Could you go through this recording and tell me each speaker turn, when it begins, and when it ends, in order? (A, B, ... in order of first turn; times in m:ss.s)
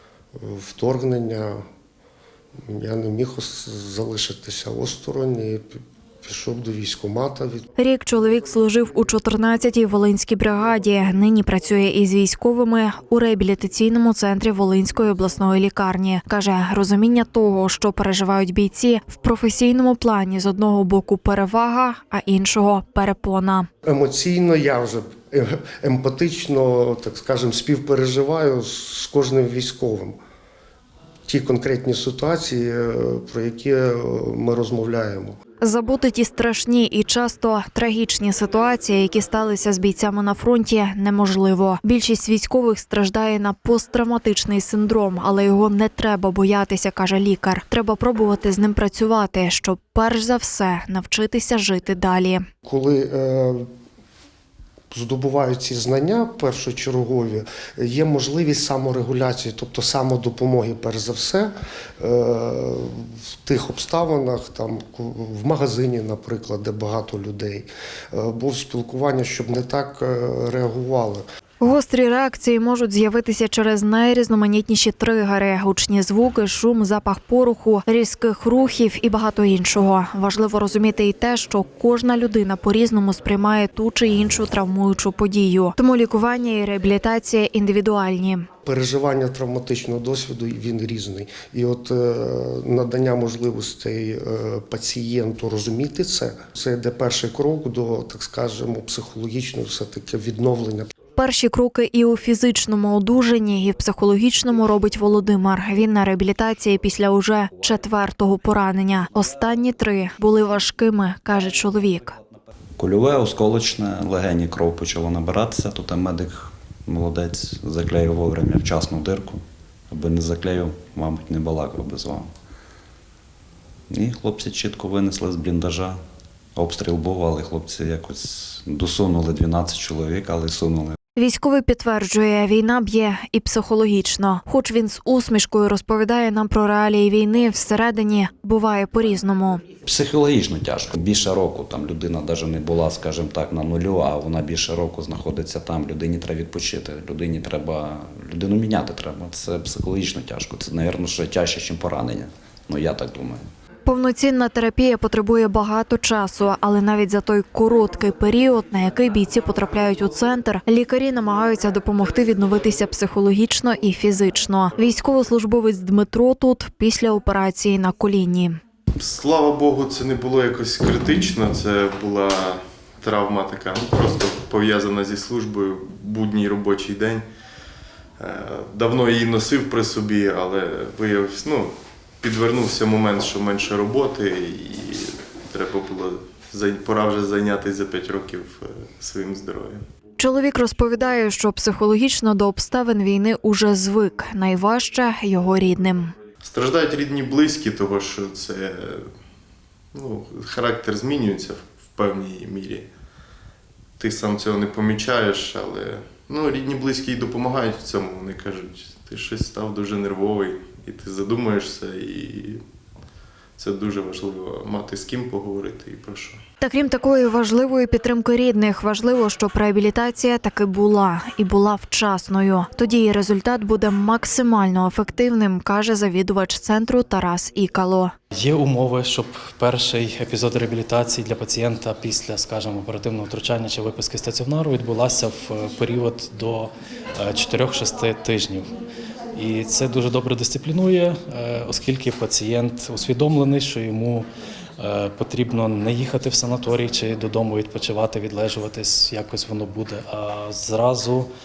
0:00.4-0:01.6 A
0:02.7-0:07.7 A
0:07.8-0:23.7 B
0:23.8-0:30.2 A
0:31.3-0:35.4 A
0:35.6-0:52.5 B
0:52.6-0:53.7 A
0:54.9-1:11.2 A
1:11.6-1:28.5 B
1:28.6-1:40.9 A
1:41.2-1:52.2 B
1:52.8-2:02.3 C
2:03.9-2:06.0 C
2:06.6-2:11.0 C
2:11.2-2:19.7 B
2:19.8-2:33.5 C
2:33.8-2:48.6 B
2:49.0-2:57.2 D
2:58.2-3:04.9 D
3:05.5-3:09.8 D
3:10.2-3:16.1 B
3:16.4-3:18.7 D
3:20.0-3:22.9 D
3:24.0-3:32.6 D
3:33.6-3:36.4 D
3:36.6-3:48.1 B
3:48.3-3:58.7 E
3:59.4-4:04.3 E
4:04.8-4:11.3 E